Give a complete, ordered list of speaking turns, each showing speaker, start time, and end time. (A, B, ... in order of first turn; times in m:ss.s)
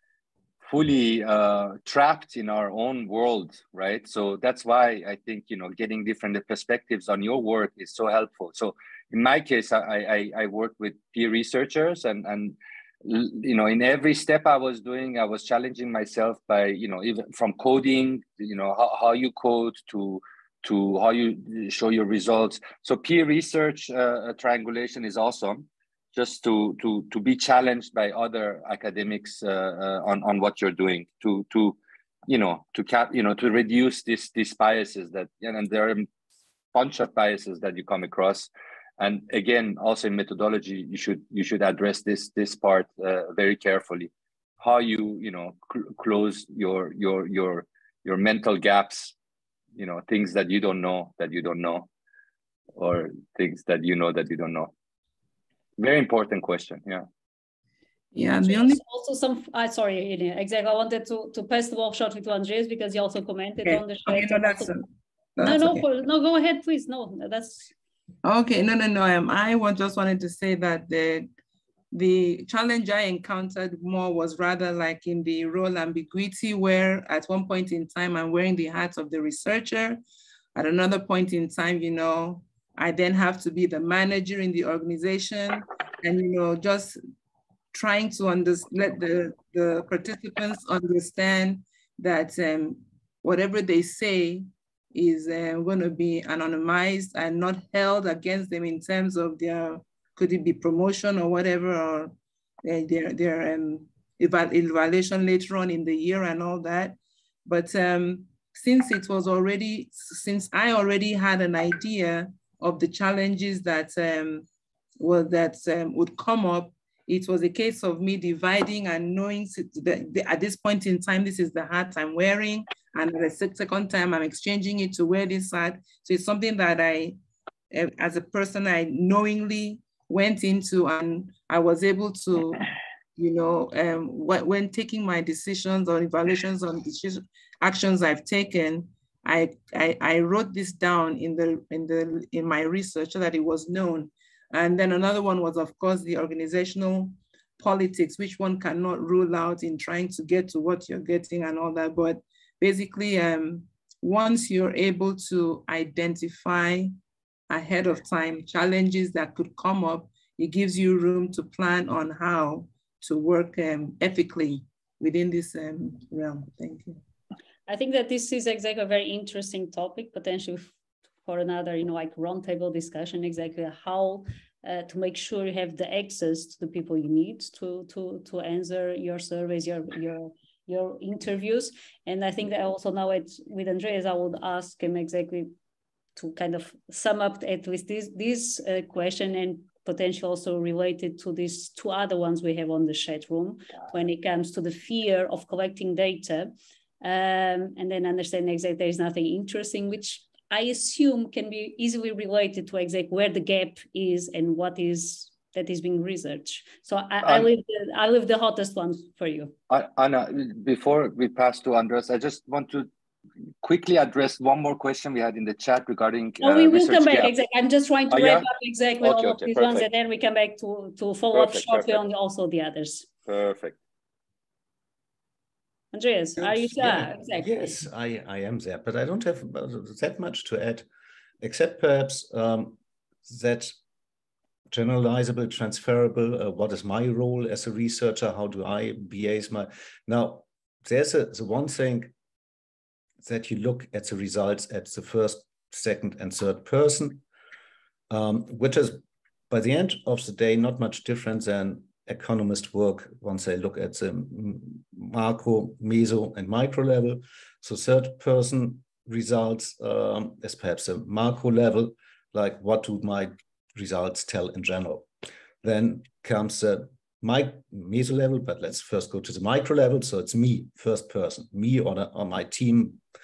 0:00.6-0:36.1 A
0:36.7-0:49.1 A
0:49.8-0:51.9 A
0:52.8-0:54.7 A
0:55.8-0:57.0 A
0:58.1-0:58.8 B
0:58.4-1:04.7 C
1:03.6-1:04.8 B
1:05.4-1:05.8 B
1:05.4-1:07.7 C
1:08.2-1:11.3 B
1:11.9-1:20.0 B
1:20.5-1:27.0 B
1:27.7-1:42.1 B
1:42.6-1:54.5 B
1:55.0-2:07.2 B
2:07.7-2:12.6 B
2:13.2-2:36.9 B
2:37.5-2:47.0 B
2:47.7-2:50.7 C
2:51.2-3:05.5 C
3:06.2-3:29.5 C
3:27.2-3:27.5 A
3:29.7-3:32.9 A
3:33.6-3:37.3 A
3:36.4-3:43.0 C
3:38.1-3:38.4 A
3:39.0-3:39.8 A
3:41.3-3:42.0 A
3:43.2-3:43.8 A
3:45.9-3:47.5 C
3:46.4-3:50.8 D
3:51.4-3:53.7 D
3:54.7-4:02.1 D
4:03.2-4:07.2 D
4:08.1-4:25.1 D
4:25.6-4:33.0 D